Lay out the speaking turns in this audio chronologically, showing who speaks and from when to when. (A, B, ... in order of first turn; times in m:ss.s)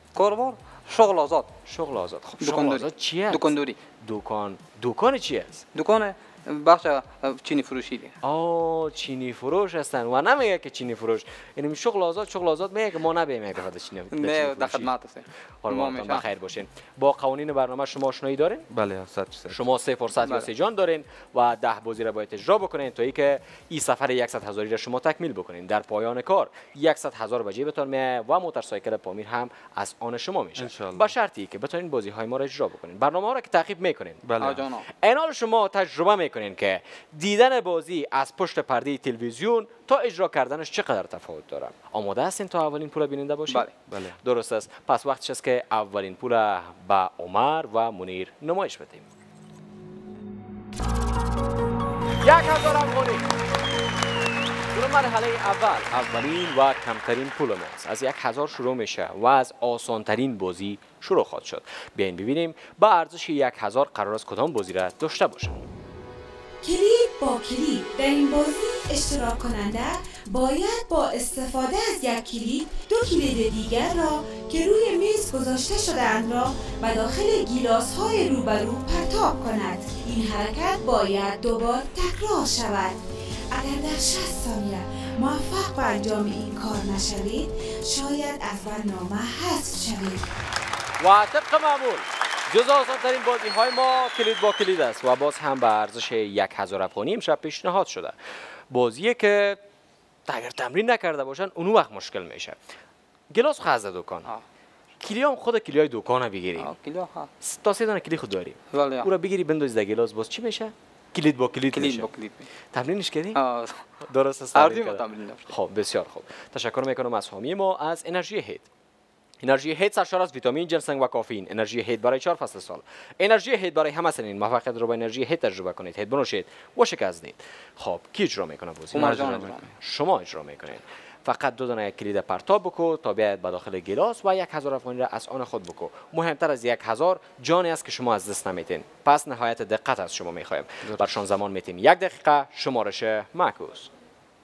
0:00.1-0:01.5 A
0:01.7-0:05.6 B
0:02.4-0:03.8 A
0:05.7-0:08.1 A
0:08.2-0:14.9 B
0:14.1-0:16.2 A
0:15.6-0:18.7 B
0:18.7-0:19.6 C
0:19.5-0:34.2 B
0:20.2-0:20.5 A
0:30.6-0:31.1 C
0:34.2-0:34.6 C
0:34.4-0:34.9 A
0:34.9-0:49.1 B
0:43.5-0:43.7 A
0:43.9-0:44.2 C
0:52.2-0:53.2 B
0:54.7-1:05.6 B
1:06.6-1:30.3 D
1:31.0-1:38.1 B
1:38.7-1:39.6 B
1:40.3-1:42.6 B
1:43.3-1:44.3 B
1:45.0-1:46.7 B
1:46.6-1:47.3 A
1:47.4-1:52.1 B
1:48.7-1:49.1 A
1:51.7-1:52.5 A
1:52.7-1:53.4 B
1:53.3-1:53.8 A
1:54.0-1:58.7 B
1:54.5-1:55.5 A
1:59.4-2:23.9 B
2:08.9-2:09.6 A
2:09.0-2:09.7 C
2:20.8-2:21.1 C